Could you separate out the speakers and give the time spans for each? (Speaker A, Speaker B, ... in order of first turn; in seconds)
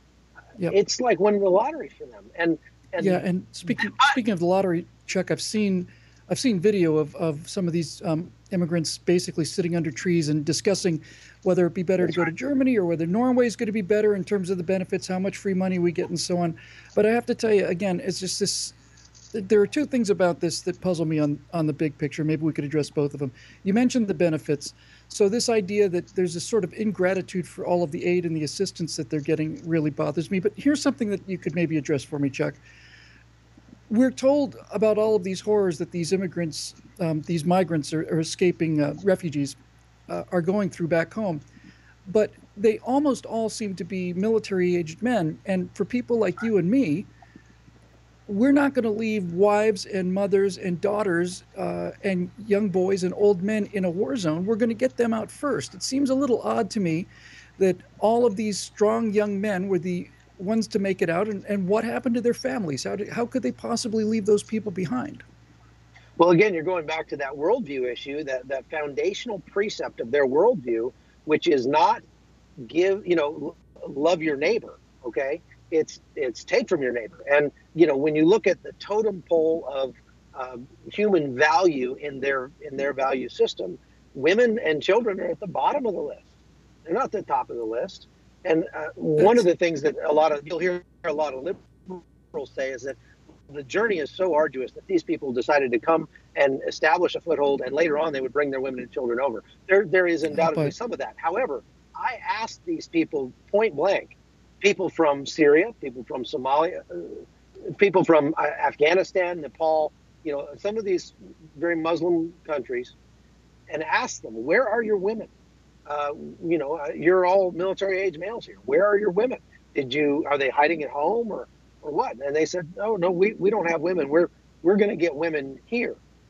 Speaker A: 0.7-3.2, 3.8-4.1, 66.2-72.0, 72.6-86.3, 86.9-113.0, 113.7-115.3, 115.9-126.0
Speaker B: 3.0-18.8, 19.3-32.6, 33.9-39.6, 40.1-41.4, 42.1-47.1, 48.3-65.2, 89.2-89.5, 100.3-100.7